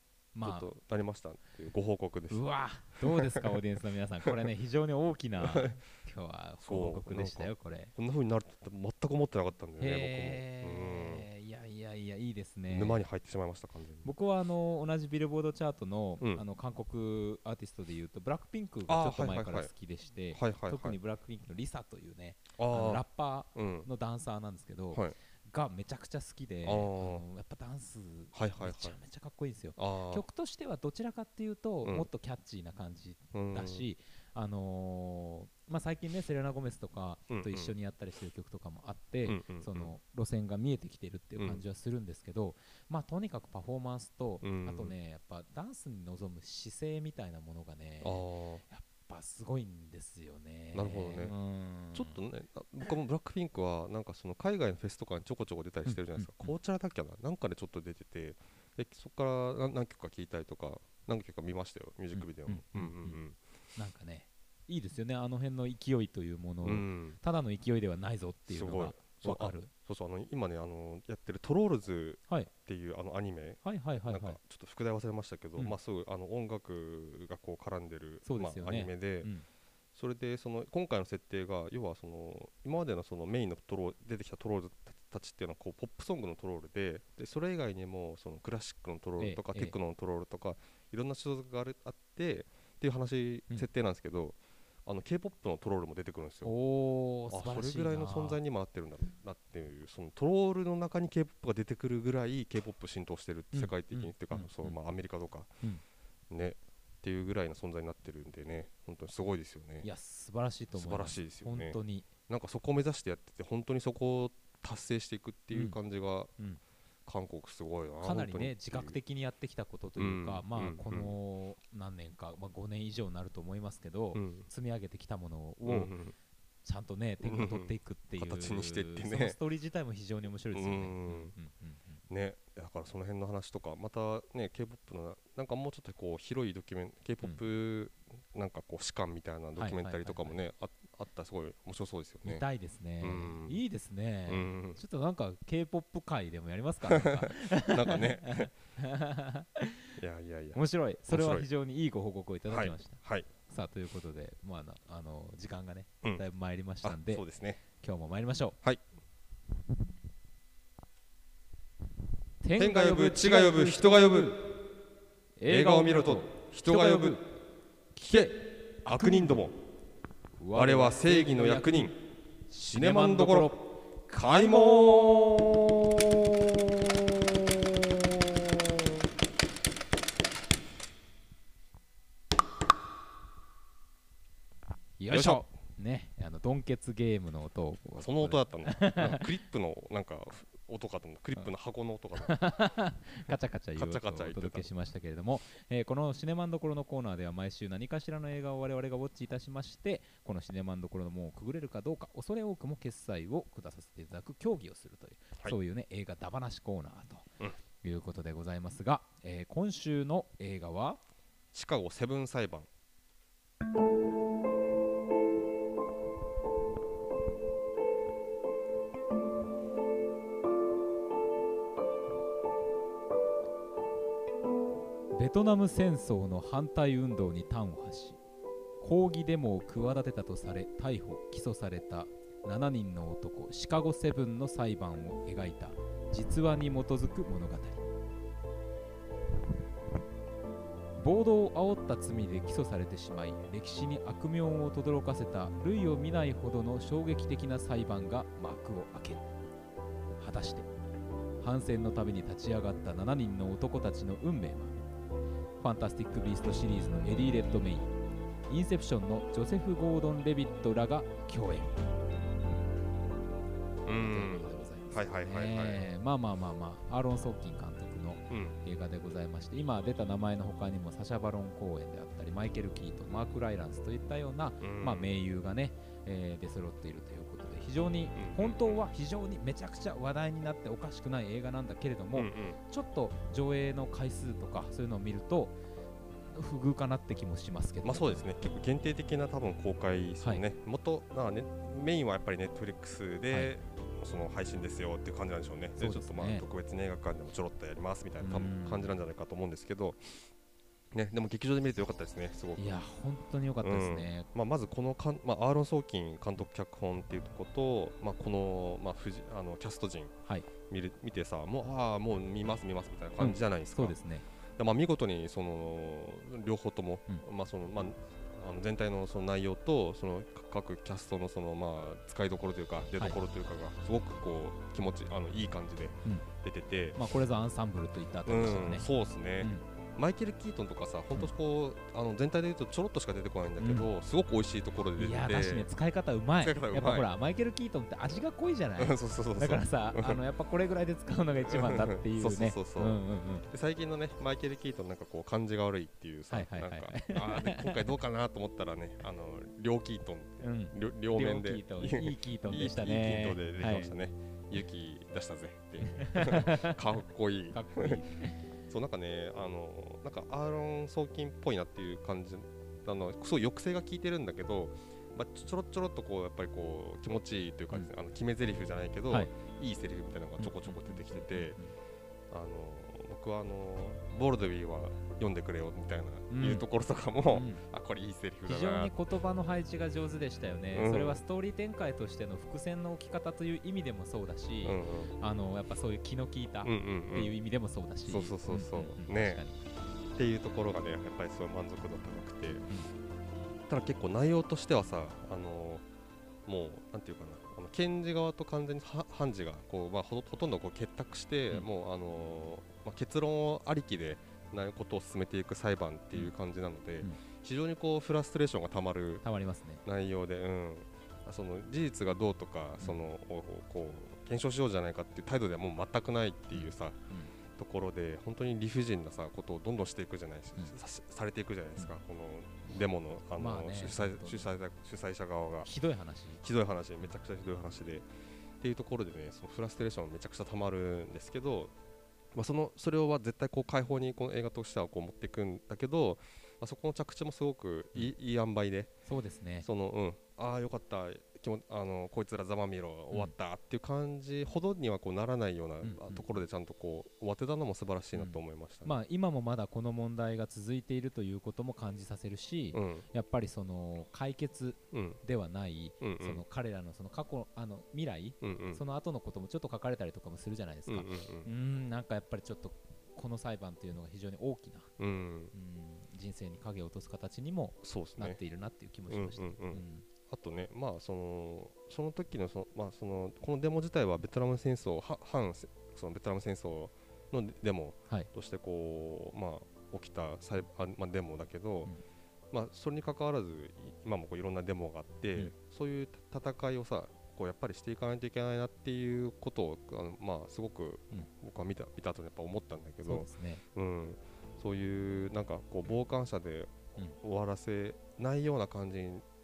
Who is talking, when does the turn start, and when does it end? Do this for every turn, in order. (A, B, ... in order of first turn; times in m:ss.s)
0:00.4-0:00.7 A
0:00.4-0:02.4 B
0:02.3-0:07.9 A
0:03.0-0:03.6 B
0:05.4-0:05.8 B
0:06.6-0:11.3 B
0:09.8-0:13.0 A
0:12.7-0:14.1 B
0:14.0-0:52.2 A
0:18.9-0:19.7 B
0:20.3-0:21.0 B
0:22.6-0:23.0 B
0:23.6-0:23.9 B
0:26.6-0:27.2 B
0:28.3-0:29.0 B
0:29.8-0:30.2 B
0:33.3-0:33.9 B
0:37.3-0:37.7 B
0:39.3-0:39.9 B
0:41.4-0:41.6 B
0:44.4-0:45.0 B
0:48.0-0:48.6 B
0:50.7-0:51.3 B
0:51.9-1:03.4 B
0:55.9-0:56.5 A
1:02.1-1:03.2 A
1:03.8-1:09.7 A
1:06.6-1:07.2 B
1:08.5-1:19.3 B
1:13.6-1:14.4 A
1:18.2-1:19.5 A
1:19.9-1:36.5 B
1:29.2-1:29.8 A
1:36.4-1:38.4 A
1:37.3-1:45.5 B
1:43.5-1:44.8 A
1:46.3-1:49.9 B
1:49.8-1:52.1 A
1:50.8-1:56.3 B
1:55.5-1:55.8 A
1:57.0-1:59.0 B
1:58.0-2:05.9 A
2:00.0-2:01.2 B
2:04.2-2:04.5 B
2:05.6-2:06.2 B
2:06.6-2:12.0 A
2:07.2-2:09.4 B
2:10.5-2:11.4 B
2:12.1-2:22.4 B
2:19.6-2:20.4 A
2:22.2-2:29.9 A
2:23.0-2:23.6 B
2:24.3-2:24.8 B
2:26.9-2:28.5 B
2:30.0-2:31.5 B
2:30.6-2:37.2 A
2:32.5-2:33.3 B
2:36.8-2:37.6 B
2:37.8-2:38.6 A
2:42.4-2:44.4 A
2:42.6-2:44.6 B
2:45.4-2:47.2 A
2:45.5-2:47.2 B
2:48.0-2:48.3 A
2:48.0-2:49.6 B
2:48.8-2:49.4 A
2:50.4-2:51.9 A
2:50.5-2:52.0 B
2:52.5-2:53.6 A
2:52.7-2:59.0 B
3:05.0-3:09.3 A
3:05.1-3:05.4 B
3:08.0-3:12.4 B
3:12.2-3:27.3 A
3:13.8-3:14.7 B
3:27.8-3:31.0 A
3:31.5-3:32.7 B
3:45.1-3:48.2 A
3:48.8-3:57.9 A
4:01.0-4:09.3 A
4:10.2-4:10.7 A
4:11.4-4:14.8 A
4:15.6-4:17.9 A
4:18.5-4:21.8 A
4:23.9-4:25.8 B
4:23.9-4:45.6 A
4:28.3-4:28.6 B
4:34.6-4:35.1 B
4:38.2-4:38.8 B
4:42.2-4:42.6 B
4:46.3-4:48.2 A
4:47.8-5:00.3 B
4:55.8-4:56.4 A
4:58.2-4:59.0 A
5:00.9-5:02.7 B
5:02.6-5:04.3 A
5:03.6-5:14.0 B
5:13.2-5:14.2 A
5:14.6-5:27.0 B
5:27.0-5:28.9 A
5:28.3-5:35.7 B
5:29.4-5:29.6 A
5:33.6-5:33.9 A
5:35.0-5:43.5 A
5:36.4-5:37.1 B
5:38.8-5:40.2 B
5:41.5-5:58.0 B
5:46.3-5:47.9 A
5:50.4-5:53.9 A
5:55.8-5:56.8 A
5:57.5-5:58.5 A
5:58.7-6:11.6 B
6:10.4-6:11.8 A
6:12.3-6:18.9 B
6:16.3-6:16.6 A
6:17.3-6:17.6 A
6:18.5-6:29.6 A
6:20.7-6:21.2 B
6:24.6-6:25.1 B
6:26.6-6:27.4 B
6:28.1-6:29.4 B
6:30.2-6:32.7 B
6:33.7-6:35.8 B
6:36.5-6:49.2 B
6:49.2-6:49.8 A
6:49.8-6:57.0 B
6:56.5-6:57.3 A
6:57.6-7:05.7 B
7:03.4-7:04.5 A
7:05.6-7:06.4 A
7:06.4-7:08.1 B
7:08.6-7:11.7 B
7:12.3-7:18.9 B
7:19.1-7:19.7 A
7:19.6-7:28.9 B
7:25.8-7:26.3 A
7:28.2-7:44.9 A
7:32.7-7:33.1 B
7:34.9-7:35.2 B
7:36.0-7:36.4 B
7:38.4-7:38.8 B
7:40.9-7:41.5 B
7:45.0-7:45.5 B
7:45.5-7:50.1 A
7:47.8-7:48.4 B
7:49.1-8:01.9 B
8:02.5-8:19.2 B
8:13.0-8:13.6 A